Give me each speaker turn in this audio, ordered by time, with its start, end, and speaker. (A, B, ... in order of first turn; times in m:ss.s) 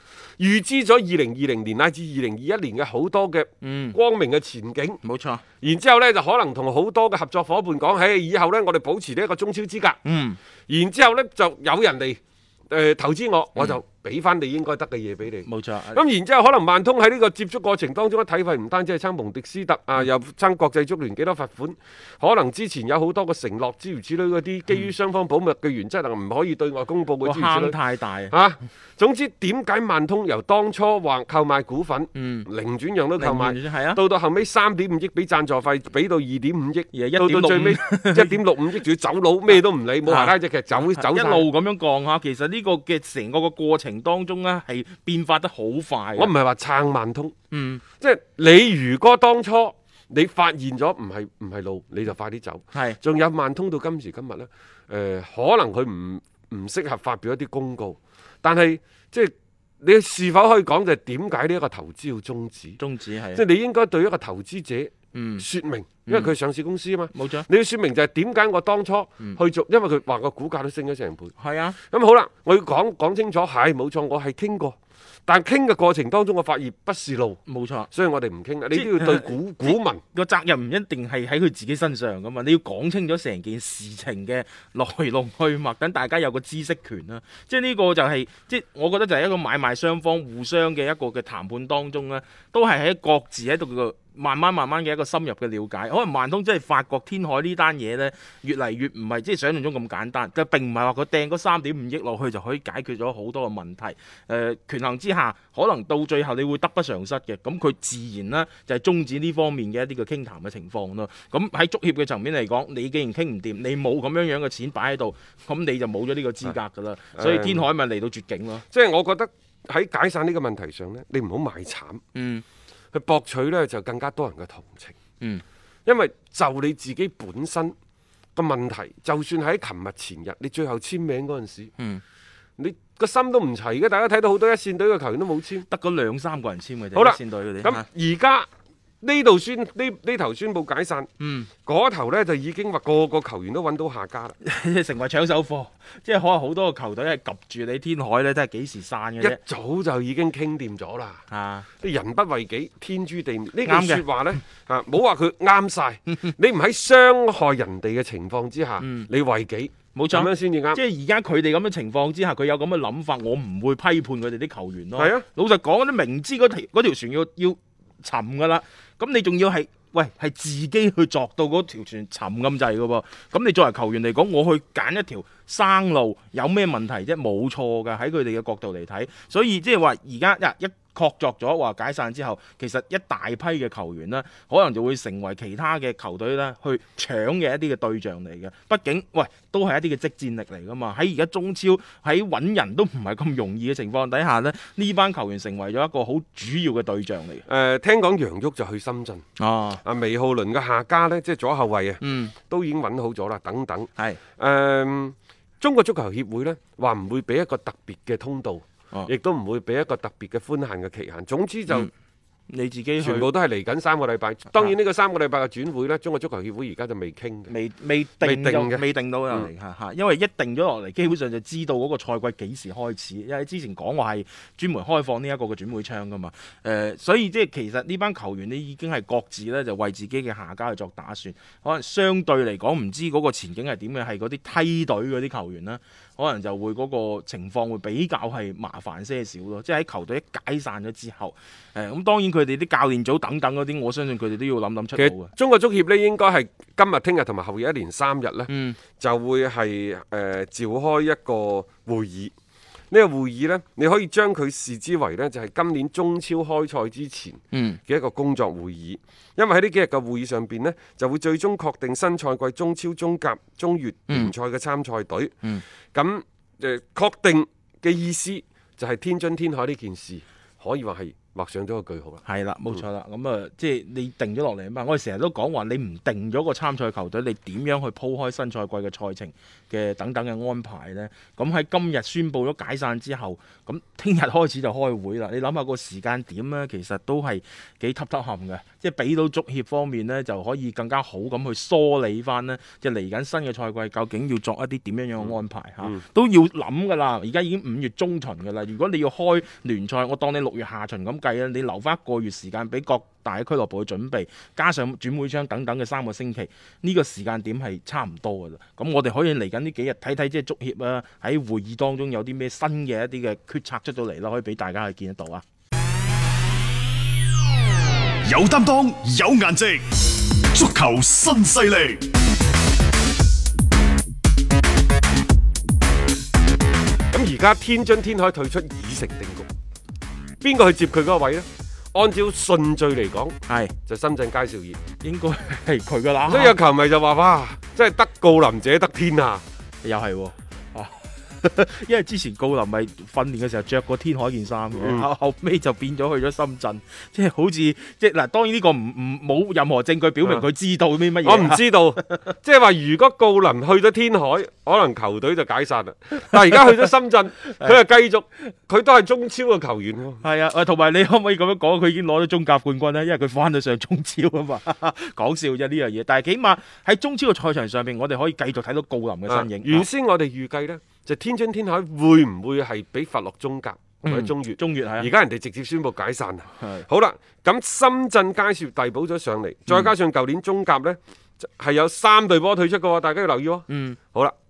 0:00.4-0:05.0 A
0:03.6-0:04.0 B
0:05.0-0:05.4 B
0:05.6-0:10.0 A
0:10.0-0:10.4 B
0:10.7-0:27.8 A
0:15.4-0:16.0 B
0:27.2-0:28.3 B
0:28.3-0:41.5 A
0:32.1-0:32.5 B
0:33.2-0:34.0 B
0:36.9-0:38.4 B
0:40.0-0:46.3 B
0:46.2-0:47.3 A
0:47.5-0:47.8 B
0:48.0-1:02.8 A
0:52.7-0:53.0 B
1:02.8-1:03.4 B
1:03.3-1:17.4 A
1:05.1-1:05.4 B
1:06.0-1:06.3 B
1:07.1-1:07.5 B
1:11.4-1:11.8 B
1:17.5-1:17.9 B
1:17.9-1:20.0 A
1:18.7-1:58.6 B
1:57.2-1:57.6 A
1:58.7-2:02.0 A
2:02.1-2:02.4 B
2:02.9-2:05.0 A
2:05.8-2:07.7 A
2:08.3-2:11.7 A
2:12.6-2:15.6 A
2:15.7-2:17.8 B
2:16.9-2:18.5 A
2:19.0-2:21.1 A
2:21.2-2:21.5 B
2:21.6-2:24.4 A
2:24.4-2:29.4 B
2:29.2-2:31.2 A
2:31.3-2:31.7 B
2:31.8-2:40.8 A
2:33.6-2:34.0 B
2:38.8-2:39.1 B
2:39.9-3:17.4 B
2:45.0-2:45.2 A
3:17.5-3:19.2 A
3:19.4-3:19.8 B
3:19.8-3:31.9 A
3:22.0-3:22.3 B
3:32.5-3:33.3 B
3:33.0-3:37.5 A
3:37.5-4:05.3 B
3:38.2-3:39.5 A
4:05.0-4:12.3 A
4:08.5-4:08.8 B
4:12.9-4:25.4 A
4:17.5-4:17.8 B
4:25.9-4:32.2 A
4:32.2-5:15.4 B
5:18.2-5:22.1 C
5:27.1-5:29.5 A
5:30.4-5:34.8 A
5:33.5-5:33.7 B
5:35.0-5:36.6 B
5:36.3-5:39.4 A
5:39.8-5:52.3 B
5:44.7-5:45.1 A
5:51.2-6:00.2 A
5:56.2-5:56.9 B
5:57.5-5:57.8 B
6:00.2-6:09.9 B
6:09.3-6:24.3 A
6:14.0-6:15.1 B
6:16.6-6:16.8 B
6:23.7-6:24.0 B